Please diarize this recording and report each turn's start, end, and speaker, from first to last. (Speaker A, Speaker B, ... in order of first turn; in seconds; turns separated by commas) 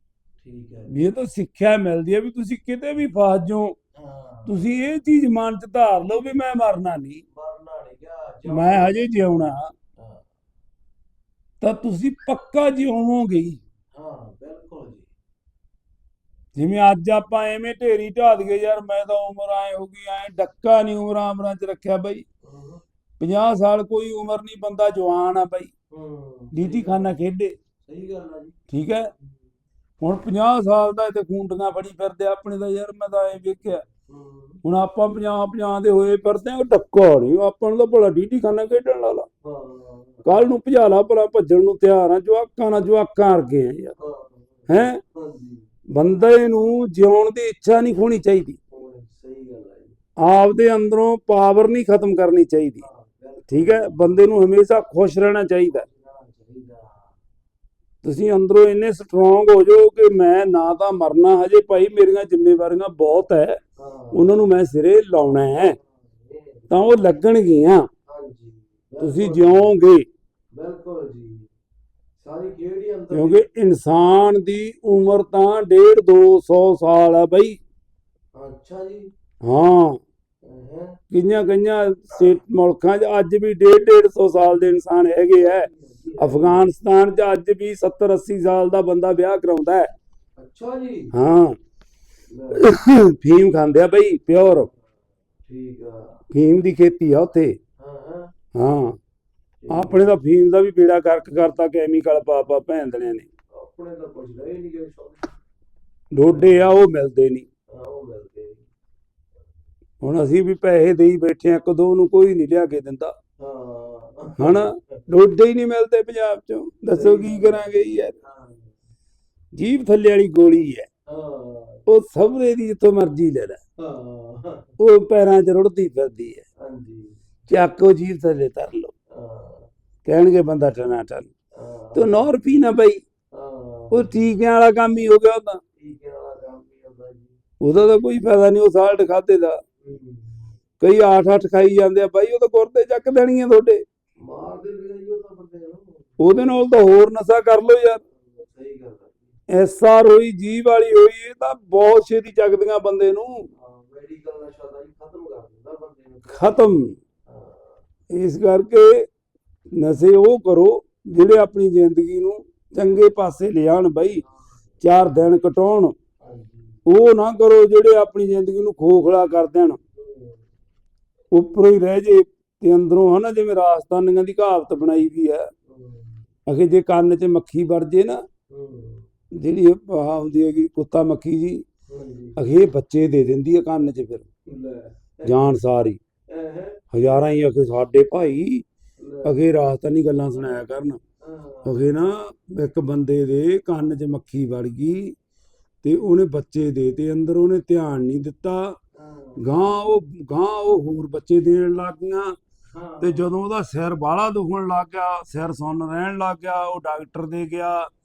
Speaker A: 0.4-1.0, Speaker B: 0.9-3.8, Speaker A: 3.9-4.7, Speaker B: 4.5-7.2, Speaker A: 7.3-10.2, Speaker B: 8.5-9.7, Speaker B: 11.6-13.6, Speaker A: 13.9-15.1, Speaker B: 16.6-22.2, Speaker A: 22.4-22.8, Speaker B: 23.2-25.7, Speaker A: 25.9-27.1, Speaker B: 26.5-27.5, Speaker A: 27.9-28.6, Speaker B: 28.7-29.1, Speaker B: 30.0-33.8, Speaker A: 33.6-34.6, Speaker B: 34.6-39.3, Speaker A: 39.4-40.5, Speaker B: 40.2-44.0, Speaker A: 44.0-45.7, Speaker B: 44.7-45.0, Speaker B: 45.9-48.6, Speaker A: 48.7-50.0, Speaker B: 50.2-52.9, Speaker A: 52.8-54.3, Speaker B: 53.5-55.8, Speaker A: 55.6-57.1, Speaker B: 58.0-63.6, Speaker A: 63.8-64.4, Speaker B: 64.1-65.8, Speaker A: 65.2-67.0, Speaker B: 66.7-67.9, Speaker A: 68.1-69.7, Speaker B: 69.0-70.0, Speaker A: 70.5-71.5, Speaker A: 72.2-73.5, Speaker B: 73.1-77.6, Speaker A: 78.3-79.1, Speaker B: 79.4-80.0, Speaker A: 80.4-81.0, Speaker B: 81.1-85.7, Speaker A: 85.4-86.7, Speaker B: 86.2-89.9, Speaker A: 90.4-91.1, Speaker B: 91.1-91.5, Speaker A: 92.3-92.6, Speaker B: 92.5-94.7, Speaker A: 95.4-96.2, Speaker B: 96.3-97.6, Speaker A: 97.8-98.3, Speaker B: 98.5-99.0, Speaker A: 99.6-100.1, Speaker B: 99.7-103.3, Speaker A: 103.5-105.3, Speaker B: 106.1-107.5, Speaker A: 106.3-106.7, Speaker A: 107.7-108.7, Speaker B: 110.0-113.1, Speaker A: 113.4-114.8, Speaker B: 114.4-118.2, Speaker A: 116.9-118.8, Speaker B: 119.5-120.9, Speaker A: 121.1-121.8, Speaker B: 121.9-123.6, Speaker A: 123.8-124.7, Speaker B: 124.8-126.4, Speaker A: 126.6-127.2, Speaker B: 127.5-128.9, Speaker A: 129.1-129.7, Speaker B: 130.0-131.3, Speaker A: 131.6-132.3, Speaker B: 131.9-133.0, Speaker A: 133.3-134.3, Speaker B: 133.9-135.6, Speaker A: 135.8-137.4, Speaker B: 137.6-139.6, Speaker A: 139.8-140.6, Speaker B: 140.8-143.8, Speaker A: 144.2-146.6, Speaker B: 146.2-148.0, Speaker A: 148.0-149.3, Speaker B: 149.5-153.5, Speaker A: 153.6-157.8, Speaker B: 156.3-156.9, Speaker B: 158.1-159.0, Speaker B: 159.8-164.2, Speaker A: 164.2-164.6, Speaker B: 164.8-165.9, Speaker A: 166.2-166.8, Speaker B: 166.8-169.8, Speaker A: 169.9-170.4, Speaker B: 171.3-175.5, Speaker A: 175.7-176.2, Speaker B: 176.5-178.2, Speaker A: 178.5-179.1, Speaker B: 179.4-181.6, Speaker A: 181.9-182.4, Speaker B: 182.4-184.2, Speaker A: 184.5-185.5, Speaker B: 185.2-186.0, Speaker A: 186.3-186.8, Speaker B: 186.9-188.6, Speaker A: 189.0-189.4, Speaker B: 189.2-191.0, Speaker A: 191.2-191.9, Speaker B: 191.6-195.1, Speaker B: 195.8-198.8, Speaker A: 198.9-199.4, Speaker B: 199.4-202.3, Speaker A: 202.7-203.3, Speaker B: 203.0-207.8